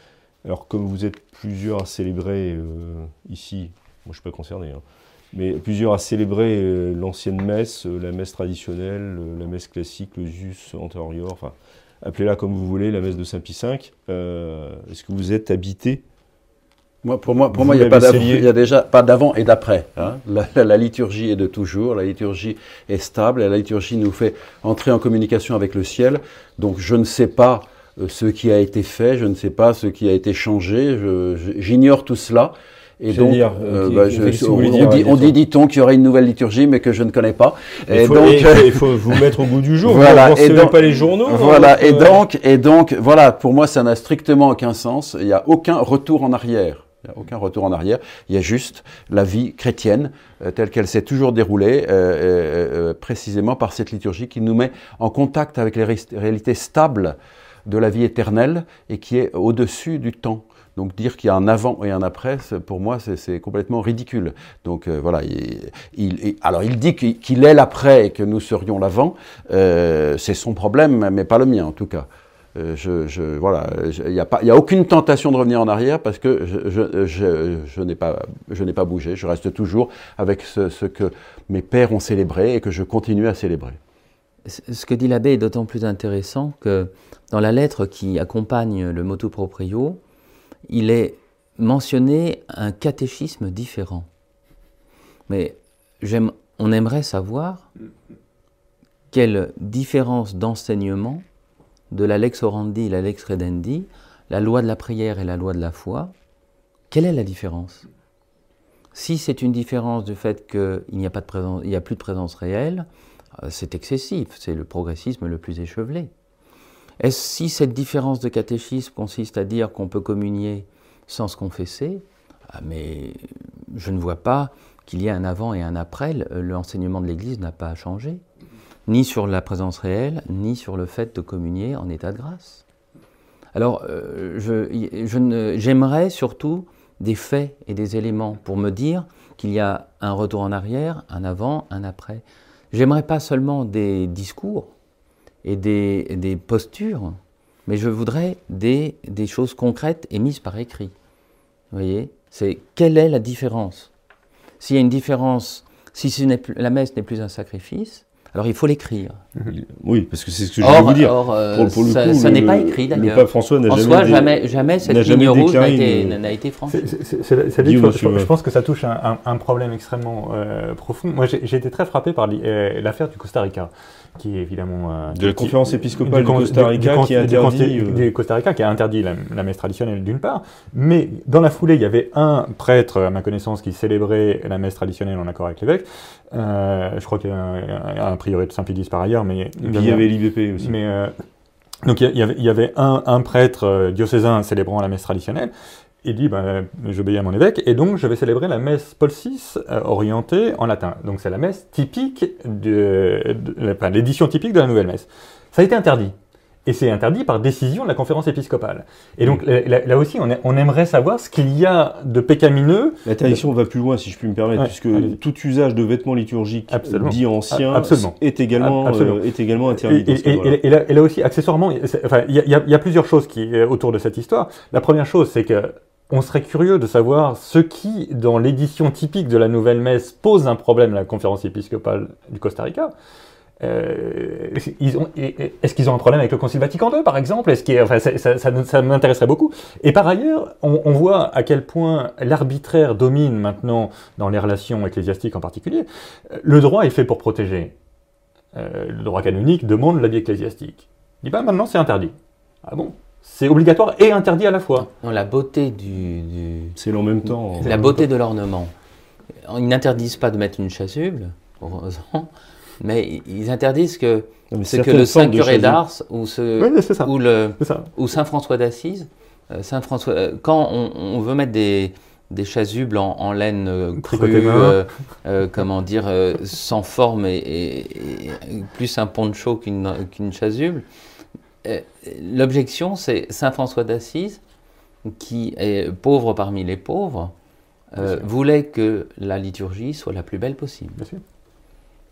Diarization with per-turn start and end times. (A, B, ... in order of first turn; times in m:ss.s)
0:00.4-0:16.0 A
0:17.0-0:39.2 B
0:17.5-0:18.5 A
0:33.1-0:35.4 A
0:37.9-0:42.2 A
0:39.8-1:23.8 B
1:24.4-1:30.0 C
1:30.7-1:34.1 C
1:35.3-1:37.7 C
1:39.1-1:41.2 C
1:41.9-1:46.1 C
1:46.9-1:47.9 C
1:48.9-1:52.9 C
1:53.4-1:56.1 C
1:57.0-2:08.2 C
2:08.9-2:12.6 C
2:13.5-2:24.7 C
2:25.4-2:30.9 C
2:31.7-2:33.9 C
2:34.6-2:39.2 C
2:39.5-2:44.3 A
2:40.6-2:46.8 C
2:44.8-2:46.2 A
2:46.7-3:10.1 D
2:47.6-2:48.3 A
2:55.1-2:58.1 A
3:09.6-3:10.8 A
3:10.6-3:11.1 D
3:11.8-3:15.5 D
3:16.0-3:26.1 D
3:26.6-3:33.4 D
3:33.1-3:40.6 A
3:34.6-3:35.2 D
3:36.7-3:39.2 D
3:39.7-3:52.9 D
3:53.6-4:07.7 D
4:08.5-4:14.9 D
4:15.0-4:16.8 C
4:16.8-4:17.9 A
4:17.6-4:18.7 C
4:19.4-4:40.9 C
4:24.5-4:25.8 A
4:26.6-4:27.9 D
4:34.0-4:34.8 D
4:41.6-4:44.4 C
4:45.0-4:47.3 C
4:47.9-4:51.0 C